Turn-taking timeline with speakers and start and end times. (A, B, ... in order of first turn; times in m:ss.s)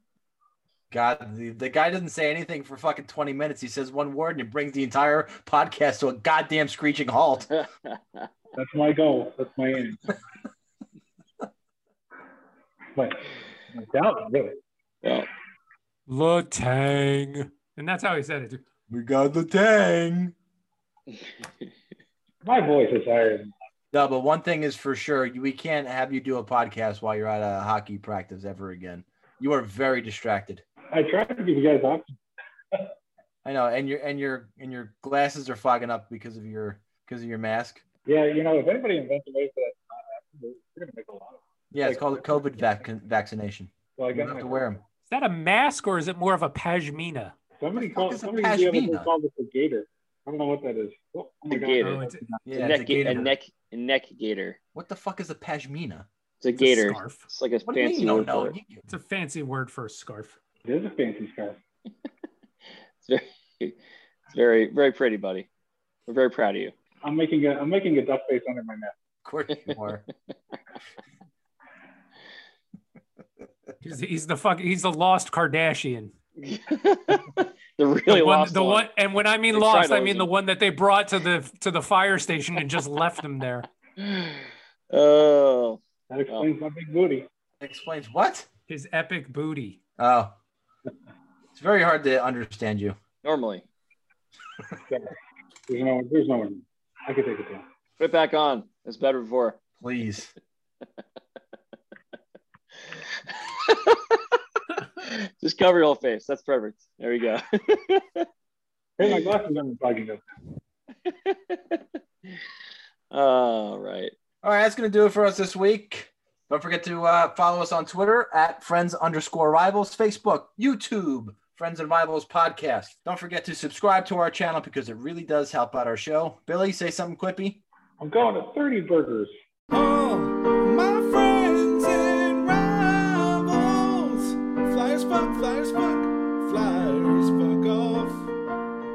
0:00.9-0:07.5 A
0:07.5-0:08.3 B
0:08.6-0:10.2 C
0:13.0-0:14.6 C
0:16.1-0:18.6 D
0:18.9-0:20.3 A
0:22.4-0:23.5 C
0:23.9-0:30.6 A
0:30.9-0:32.1 C
0:33.4-0:37.8 A
0:38.1-0:42.6 C
0:41.7-0:44.8 A
0:44.0-0:44.7 C
0:45.1-0:47.3 D
0:47.6-0:52.4 C
0:47.7-0:49.1 A
0:51.5-0:52.0 B
0:51.8-0:52.3 D
0:52.4-0:53.3 A
0:52.5-0:54.6 B
0:54.7-0:56.1 A
0:56.4-0:58.5 B
0:56.6-0:57.3 D
0:57.7-0:58.8 A
0:58.9-1:00.4 D
1:00.6-1:01.6 C
1:03.0-1:03.8 B
1:04.3-1:05.5 B
1:06.1-1:06.7 B
1:07.0-1:08.9 C
1:09.2-1:10.0 A
1:13.8-1:16.1 D
1:16.4-1:18.9 B
1:18.1-1:23.6 D
1:19.5-1:20.3 B
1:24.0-1:25.8 B
1:26.1-1:27.2 C
1:27.6-1:28.5 A
1:28.7-1:29.8 D
1:30.0-1:30.3 A
1:31.5-1:33.0 A
1:33.2-1:33.6 B
1:34.9-1:35.1 C
1:35.7-1:37.6 C
1:38.0-1:39.6 B
1:39.8-1:40.3 A
1:43.3-1:44.2 B
1:45.0-1:48.2 B
1:49.0-1:50.2 C
1:51.0-1:52.4 B
1:53.1-1:54.1 B
1:54.4-2:07.6 A
2:08.0-2:09.3 C
2:09.7-2:18.3 E